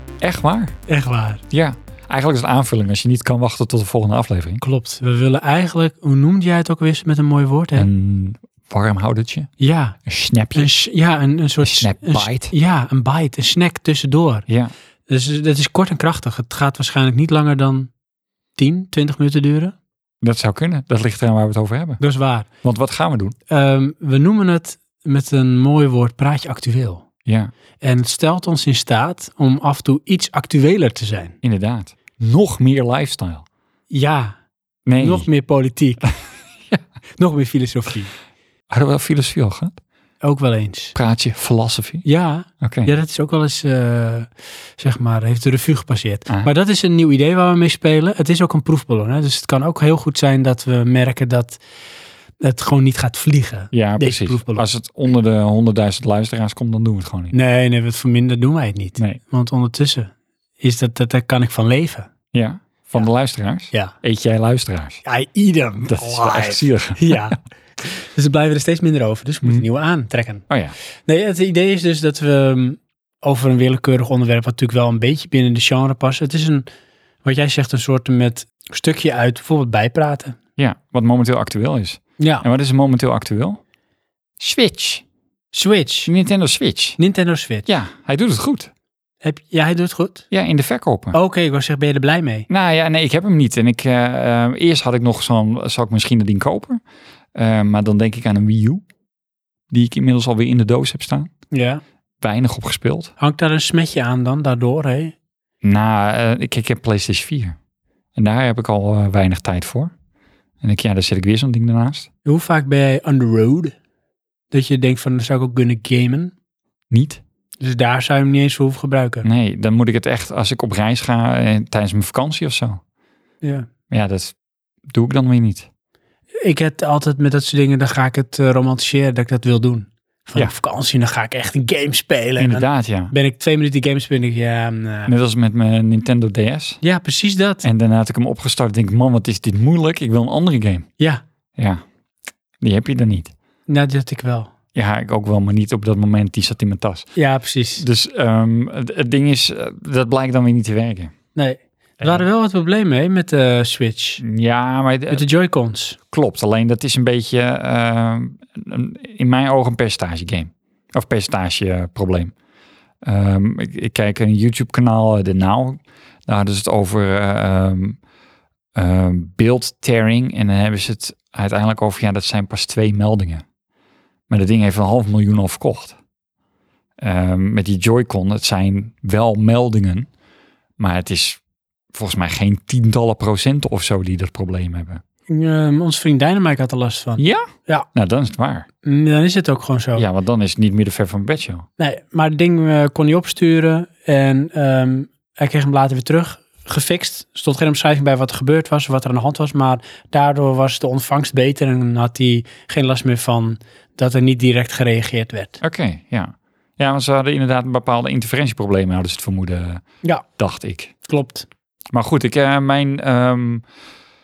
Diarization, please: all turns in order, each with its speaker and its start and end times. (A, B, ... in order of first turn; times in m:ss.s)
0:00.2-0:00.8 A
0:00.9-0:01.4 B
0:01.5-0:04.6 A
0:04.6-0:07.9 B
0:07.7-0:09.5 A
0:09.6-0:10.0 B
0:10.0-0:10.7 A
0:10.5-0:14.4 B
0:11.6-0:12.5 A
0:14.5-0:14.7 A
0:15.1-0:17.9 B
0:18.6-0:19.7 B
0:20.2-0:22.0 A
0:22.0-0:22.5 B
0:22.6-0:23.3 A
0:23.5-0:27.0 B
0:27.2-0:27.5 A
0:27.8-0:31.3 B
0:31.4-0:33.4 A
0:33.9-0:34.4 B
0:34.8-0:35.2 A
0:35.0-0:36.0 B
0:37.2-0:38.1 B
0:38.7-0:39.8 A
0:40.2-0:40.9 B
0:40.9-0:42.0 A
0:42.0-0:51.6 B
0:42.6-0:42.9 A
0:52.4-0:54.6 B
0:53.7-0:57.3 A
0:57.3-1:02.1 B
1:02.3-1:05.0 A
1:05.0-1:10.4 B
1:05.9-1:07.2 A
1:11.0-1:16.6 B
1:17.2-1:20.4 B
1:20.6-1:23.6 A
1:22.2-1:22.4 B
1:24.4-1:25.0 A
1:25.5-1:26.1 B
1:26.0-1:27.0 A
1:27.0-1:27.7 B
1:27.7-1:28.7 A
1:29.2-1:30.2 B
1:30.3-1:31.2 A
1:31.1-1:32.5 B
1:32.5-1:36.8 A
1:37.3-1:38.8 A
1:39.7-1:41.3 A
1:41.5-1:41.8 B
1:42.2-1:43.1 A
1:43.2-1:45.1 B
1:45.6-1:47.6 A
1:48.2-1:49.9 A
1:50.6-1:52.1 A
1:52.2-1:53.7 B
1:54.5-1:56.3 B
1:56.9-1:57.2 A
1:57.6-1:59.2 B
1:59.2-2:02.8 A
2:03.4-2:03.7 B
2:03.9-2:04.3 A
2:04.9-2:05.7 A
2:06.4-2:15.1 B
2:12.4-2:13.1 A
2:15.1-2:16.8 A
2:16.8-2:17.6 B
2:17.6-2:20.8 A
2:22.6-2:23.3 A
2:23.7-2:24.5 B
2:24.7-2:27.1 A
2:27.1-2:27.8 B
2:27.8-2:31.1 A
2:31.3-2:34.2 B
2:32.0-2:32.2 A
2:34.2-2:35.2 A
2:35.1-2:36.0 B
2:36.1-2:42.3 A
2:43.0-2:48.0 A
2:48.7-2:53.4 A
2:54.3-2:56.0 A
2:57.0-3:00.1 A
3:00.8-3:01.4 A
3:01.9-3:05.0 A
3:05.3-3:07.9 B
3:07.2-3:08.6 A
3:08.8-3:10.1 B
3:10.0-3:11.6 A
3:11.8-3:25.6 B
3:25.6-3:29.8 A
3:30.4-3:30.9 A
3:31.0-3:31.4 B
3:31.9-3:33.6 A